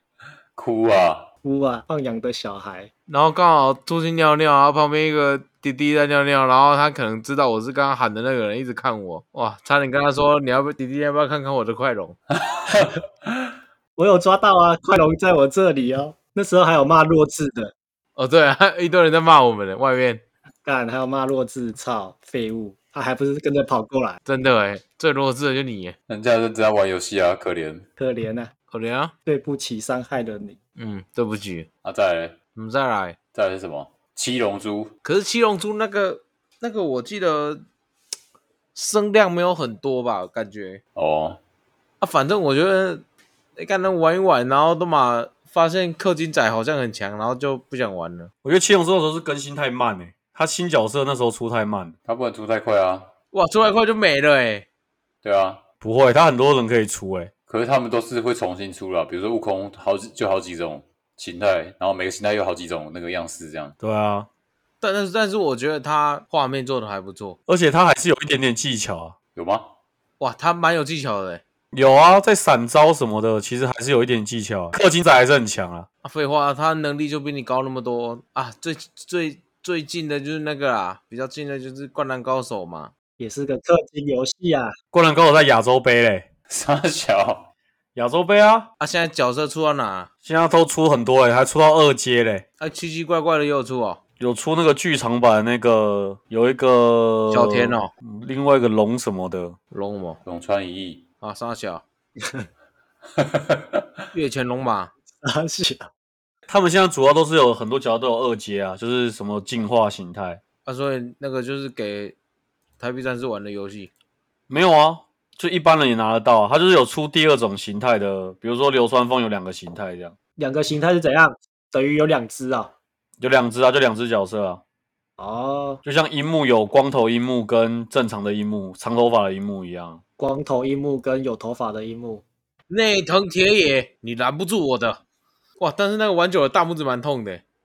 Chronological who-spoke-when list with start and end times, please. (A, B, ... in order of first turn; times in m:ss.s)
0:00.6-0:01.3 A
0:01.4-0:02.9 B
0:03.1-0:12.2 C
0:12.4-0:13.4 A
0:14.0-0:17.7 B
0:18.2-0:20.2 C
0:20.6-0:24.2 B
0:24.2-0:25.9 C
0:26.1-0:27.8 A
0:28.0-0:28.5 B
0:28.7-0:29.1 C
0:29.2-0:30.6 B
0:30.8-0:31.7 C
0:31.8-0:32.4 A
0:32.5-0:33.2 C
0:33.3-0:34.9 A
0:35.0-0:37.6 C
0:38.7-0:40.8 C
0:40.9-0:41.4 A
0:42.0-0:43.0 C
0:43.6-0:48.3 C
0:48.4-0:51.9 D
0:52.0-0:53.1 A
0:53.3-0:54.7 C
0:55.2-0:55.6 A
0:55.8-0:57.3 D
0:57.5-1:03.7 A
1:03.8-1:04.3 D
1:04.8-1:07.4 C
1:07.5-1:09.1 D
1:09.3-1:09.7 A
1:10.2-1:11.4 C
1:11.7-1:15.9 D
1:16.0-1:22.9 C
1:23.2-1:24.7 B
1:24.9-1:26.3 D
1:26.5-1:27.5 A
1:28.0-1:28.7 D
1:28.8-1:30.1 C
1:30.2-1:32.4 D
1:32.6-1:34.0 C
1:34.2-1:39.6 D
1:37.3-1:37.9 C
1:39.7-1:40.2 C
1:40.2-1:41.0 A
1:41.2-1:41.8 C
1:43.2-1:43.8 A
1:44.1-1:44.9 C
1:45.2-1:45.9 B
1:46.5-1:50.4 D
1:50.6-1:52.1 C
1:52.8-1:53.9 C
1:54.5-2:00.1 D
2:00.4-2:02.7 B
2:03.2-2:04.6 D
2:05.2-2:05.8 B
2:05.8-2:10.0 D
2:10.2-2:12.2 B
2:12.7-2:15.0 C
2:15.6-2:17.4 C